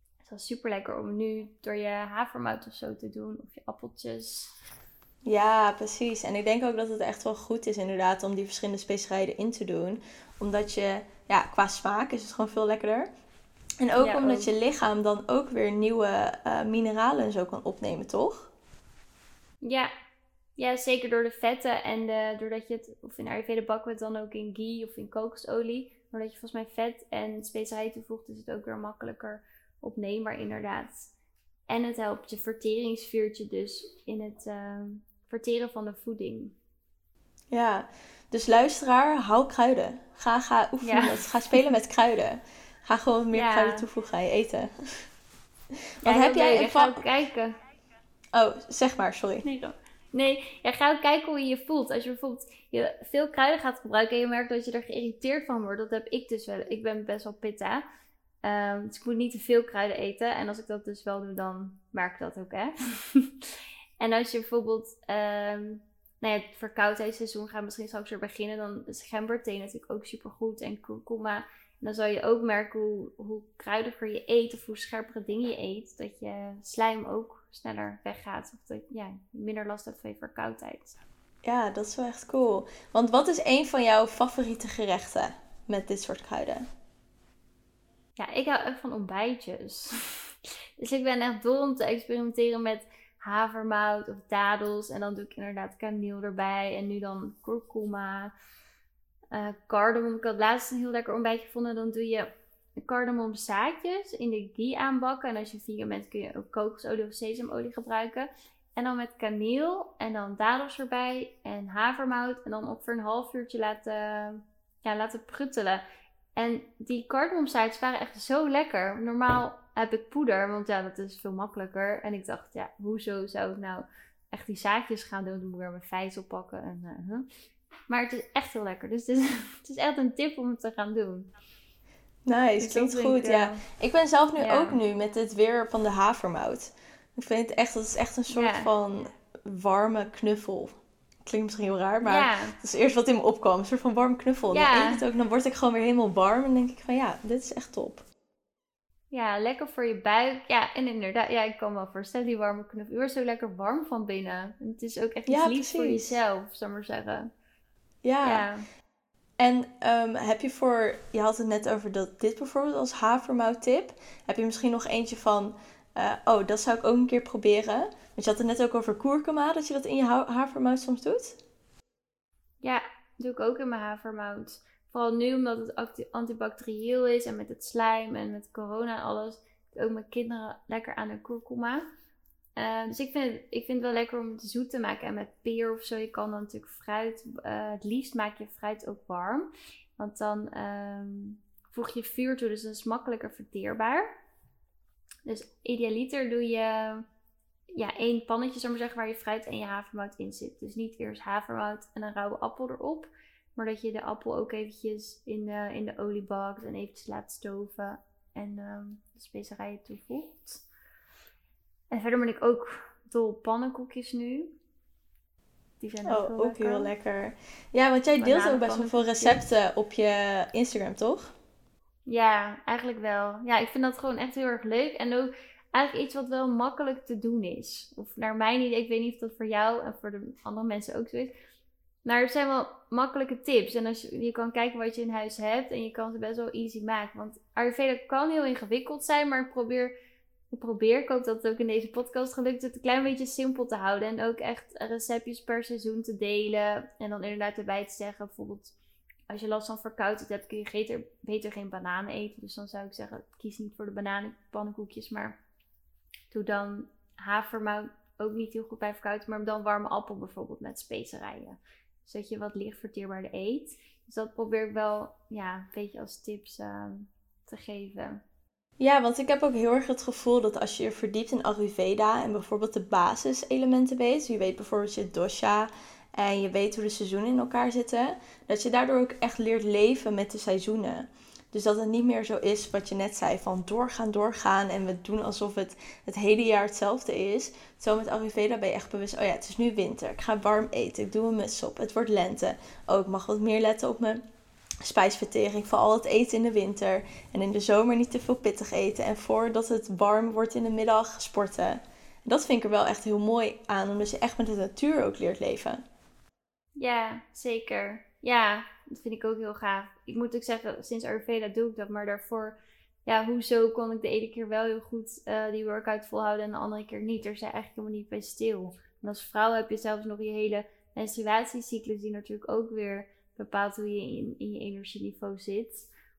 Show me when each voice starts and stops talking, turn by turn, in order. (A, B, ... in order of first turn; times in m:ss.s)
0:00.2-0:04.5 A
0:05.2-0:13.1 B
0:13.8-0:18.5 B
0:14.0-0:14.5 A
0:19.6-0:19.9 A
0:20.6-0:31.1 A
0:31.7-0:36.6 A
0:37.5-0:44.7 B
0:40.8-0:41.2 A
0:43.3-0:43.9 A
0:46.0-0:47.0 B
0:46.0-0:47.6 A
0:48.3-0:49.4 B
0:49.4-0:57.8 A
0:58.4-1:21.0 A
1:21.4-1:26.6 B
1:28.2-1:38.3 A
1:39.3-1:42.3 A
1:42.8-1:55.8 A
1:56.4-2:07.2 A
2:07.9-2:11.3 A
2:12.2-2:20.7 B
2:12.6-2:13.6 A
2:14.4-2:14.8 A
2:18.3-2:18.7 A
2:21.2-2:28.0 B
2:22.0-2:22.6 A
2:24.5-2:25.0 A
2:29.1-2:37.3 A
2:35.3-2:36.2 B
2:38.0-2:38.4 B
2:38.2-2:38.6 A
2:39.4-2:51.4 B
2:52.6-3:01.8 A
3:02.6-3:14.1 A
3:15.2-3:17.0 A
3:17.7-3:30.6 A
3:31.9-3:34.5 A
3:35.8-3:36.9 A
3:36.0-3:41.3 B
3:38.2-3:39.4 A
3:42.0-3:51.3 A
3:52.0-3:59.9 A
4:00.5-4:08.7 A
4:09.3-4:15.4 A
4:16.3-4:28.2 A
4:28.8-4:54.2 B
4:54.8-5:05.8 B
5:06.8-5:25.9 A